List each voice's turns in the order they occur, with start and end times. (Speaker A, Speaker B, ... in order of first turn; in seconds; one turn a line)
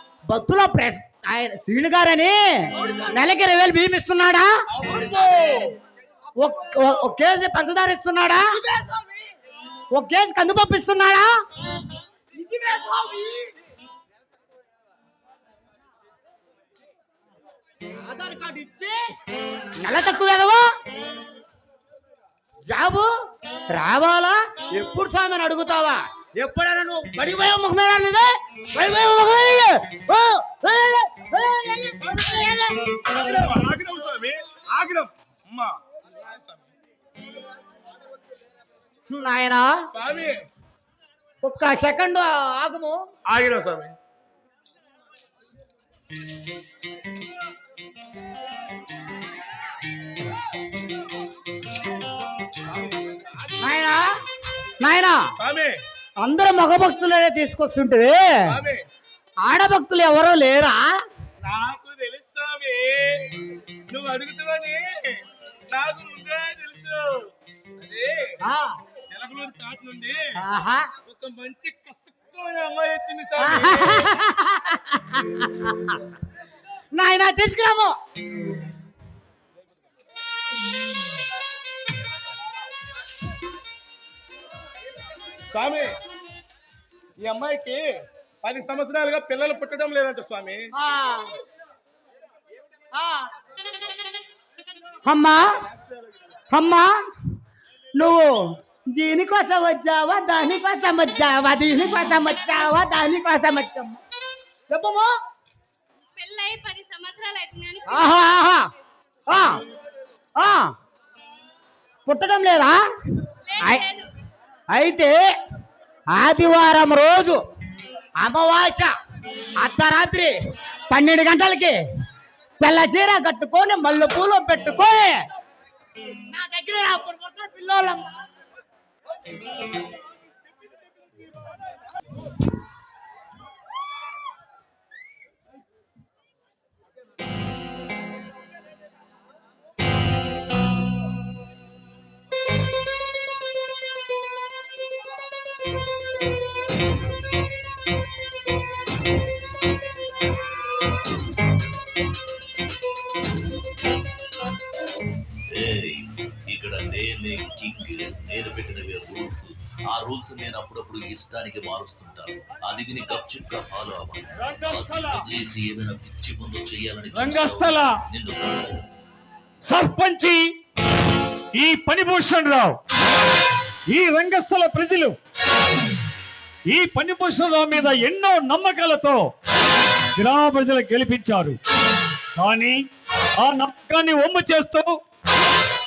Speaker A: 0.3-4.6
Speaker B: 4.7-5.7
Speaker A: 6.4-8.6
Speaker A: 9.9-11.4
Speaker A: 12.4-13.4
Speaker A: 18.0-19.0
Speaker A: 19.8-20.7
Speaker A: 22.7-23.1
Speaker A: 23.7-33.1
Speaker B: 33.1-36.6
Speaker A: 39.1-39.7
Speaker B: 39.9-40.5
Speaker A: 41.4-43.0
Speaker B: 43.3-43.9
Speaker B: 52.6-53.5
Speaker A: 53.6-54.1
Speaker A: 54.8-55.2
Speaker B: 55.4-55.8
Speaker A: 56.2-58.3
Speaker B: 58.5-58.8
Speaker A: 59.4-61.0
Speaker B: 61.4-63.3
Speaker B: 63.9-68.4
Speaker A: 68.5-68.8
Speaker B: 69.1-70.2
Speaker A: 70.4-70.9
Speaker B: 71.0-74.1
Speaker A: 73.4-75.9
Speaker A: 76.9-78.0
Speaker B: 85.5-86.0
Speaker B: 87.2-90.7
Speaker A: 90.8-91.3
Speaker A: 93.0-93.3
Speaker A: 95.0-95.6
Speaker A: 96.5-97.0
Speaker A: 98.0-104.0
Speaker A: 104.7-105.1
Speaker C: 106.2-108.2
Speaker A: 107.9-108.7
Speaker A: 109.3-109.6
Speaker A: 110.4-110.7
Speaker A: 112.1-112.8
Speaker C: 113.5-114.1
Speaker A: 113.6-113.8
Speaker A: 114.7-115.2
Speaker A: 116.1-117.4
Speaker A: 118.2-119.0
Speaker A: 119.6-120.4
Speaker A: 120.9-121.8
Speaker A: 122.6-125.2
Speaker A: 126.3-128.2
Speaker D: 155.5-168.8
Speaker E: 164.4-165.2
Speaker E: 167.1-168.0
Speaker E: 169.7-170.4
Speaker E: 171.5-172.8
Speaker E: 173.9-175.2
Speaker E: 176.7-179.2
Speaker E: 180.1-181.6
Speaker E: 182.3-182.8
Speaker E: 183.4-184.9